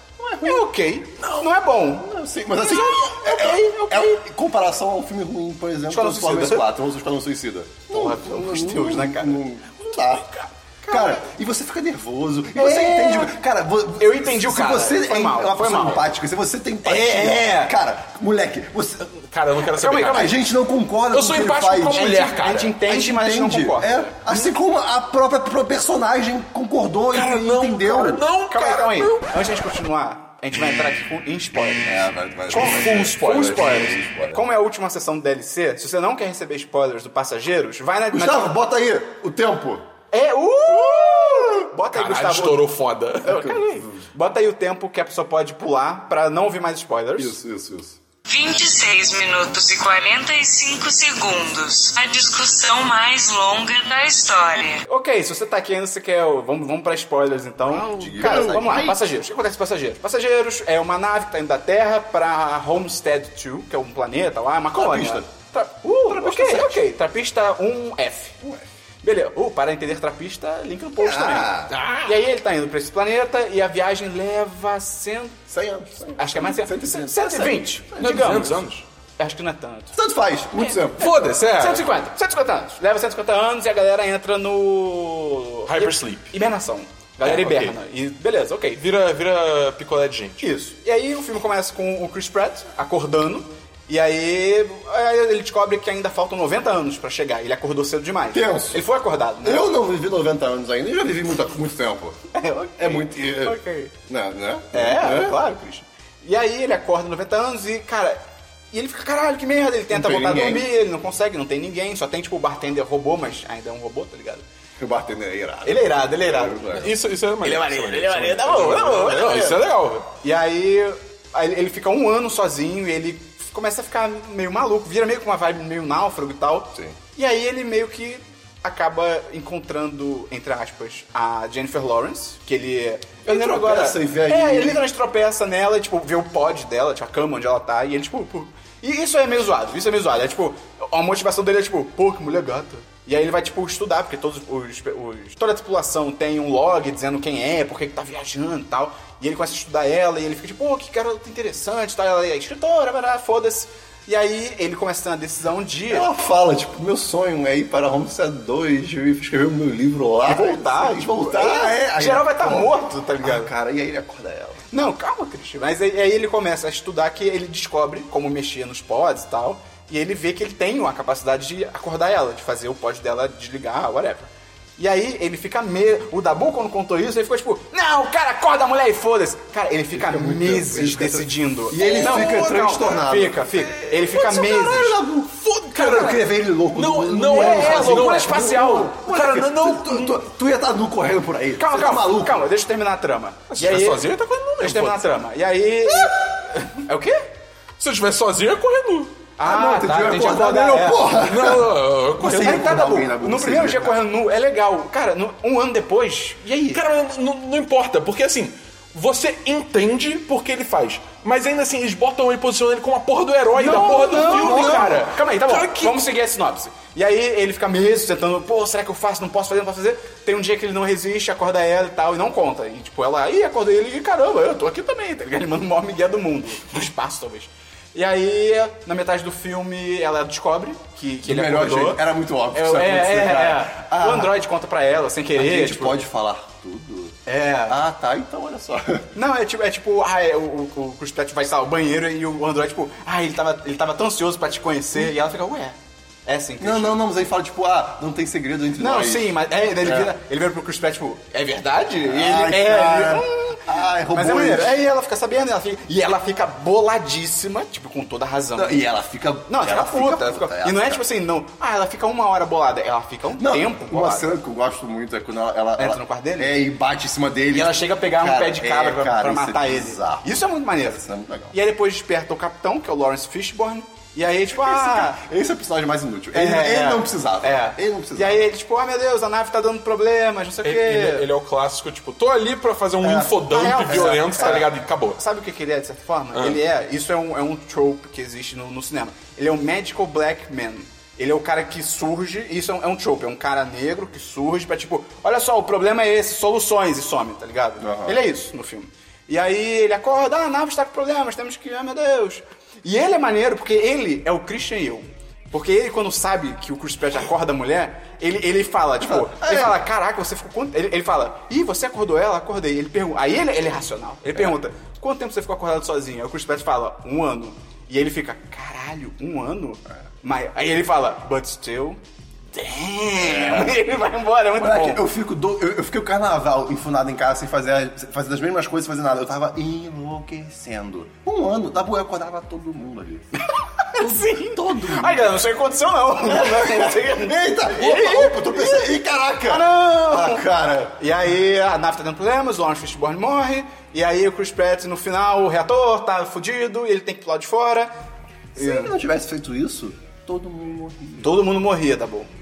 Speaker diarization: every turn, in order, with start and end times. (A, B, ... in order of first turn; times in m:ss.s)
0:00.2-0:00.7 A
0:00.4-0:04.2 B
0:01.2-0:01.5 C
0:02.0-0:10.3 A
0:05.9-0:06.8 B
0:07.9-0:09.4 B
0:10.8-0:11.3 B
0:10.9-0:19.1 A
0:12.5-0:13.4 B
0:14.0-0:16.1 B
0:16.8-0:17.8 B
0:19.1-0:20.4 C
0:19.7-0:20.4 B
0:19.9-0:22.2 A
0:21.1-0:22.8 C
0:21.9-0:24.5 B
0:22.8-0:28.2 A
0:27.1-0:29.3 C
0:28.5-0:38.5 B
0:31.8-0:34.5 A
0:32.5-0:34.0 C
0:38.1-0:39.9 A
0:40.1-0:42.7 B
0:40.7-0:41.7 A
0:41.9-0:43.4 C
0:43.2-0:47.4 B
0:43.2-0:44.0 A
0:47.2-0:48.0 A
0:48.2-0:54.8 D
0:54.8-1:08.4 B
0:57.6-0:59.0 A
1:04.8-1:05.3 A
1:06.0-1:06.9 A
1:09.0-1:15.4 B
1:11.0-1:11.8 A
1:11.7-1:12.2 C
1:15.5-1:18.6 A
1:16.2-1:18.6 B
1:18.0-1:18.8 C
1:19.2-1:20.0 B
1:19.9-1:21.2 A
1:20.5-1:28.8 B
1:21.0-1:21.9 C
1:25.7-1:26.3 C
1:27.2-1:27.8 C
1:28.8-1:30.4 C
1:30.4-1:39.7 B
1:38.3-1:38.8 A
1:39.4-1:42.2 A
1:42.3-1:43.9 B
1:42.8-1:45.5 A
1:44.7-1:48.2 B
1:48.7-1:54.4 B
1:49.9-1:50.7 A
1:54.8-1:56.9 A
1:55.6-1:56.9 B
1:56.7-2:00.1 C
1:57.4-1:59.6 B
2:00.2-2:36.1 B
2:13.3-2:14.9 A
2:35.9-2:44.6 A
2:40.2-2:43.5 B
2:44.7-3:05.0 B
2:59.9-3:03.5 A
3:01.8-3:03.0 C
3:03.5-3:04.8 C
3:04.1-3:12.5 A
3:05.3-3:10.2 C
3:05.8-3:06.2 B
3:07.2-3:09.0 B
3:11.6-3:17.3 B
3:13.5-3:15.1 C
3:17.8-3:19.3 C
3:19.4-3:21.2 B
3:19.4-3:24.0 A
3:21.2-3:22.8 C
3:22.3-3:26.8 B
3:26.7-3:36.1 C
3:33.5-3:56.0 B
3:33.9-3:35.0 A
3:51.2-3:54.4 A
3:55.4-3:59.1 A
3:57.2-3:57.8 B
3:59.1-4:07.0 B
4:06.6-4:10.1 A
4:08.8-4:18.9 B
4:12.0-4:14.8 A
4:18.5-4:21.0 A
4:19.5-4:24.4 B
4:23.4-4:31.5 A
4:25.8-4:26.6 B
4:27.5-4:35.2 B
4:34.5-4:38.4 A
4:36.3-4:41.3 B
4:40.6-4:45.2 C
4:43.0-5:22.0 B
4:43.8-4:44.6 A
4:46.3-4:46.6 C
4:57.8-4:58.2 A
5:09.0-5:09.8 A
5:22.5-5:25.0 B
5:23.2-5:23.8 A
5:24.6-5:33.3 A
5:33.5-5:38.9 B
5:34.0-5:35.3 A
5:36.2-5:41.0 A
5:39.5-5:47.9 B
5:48.6-5:49.0 B
5:48.6-5:51.5 A
5:51.2-5:52.3 B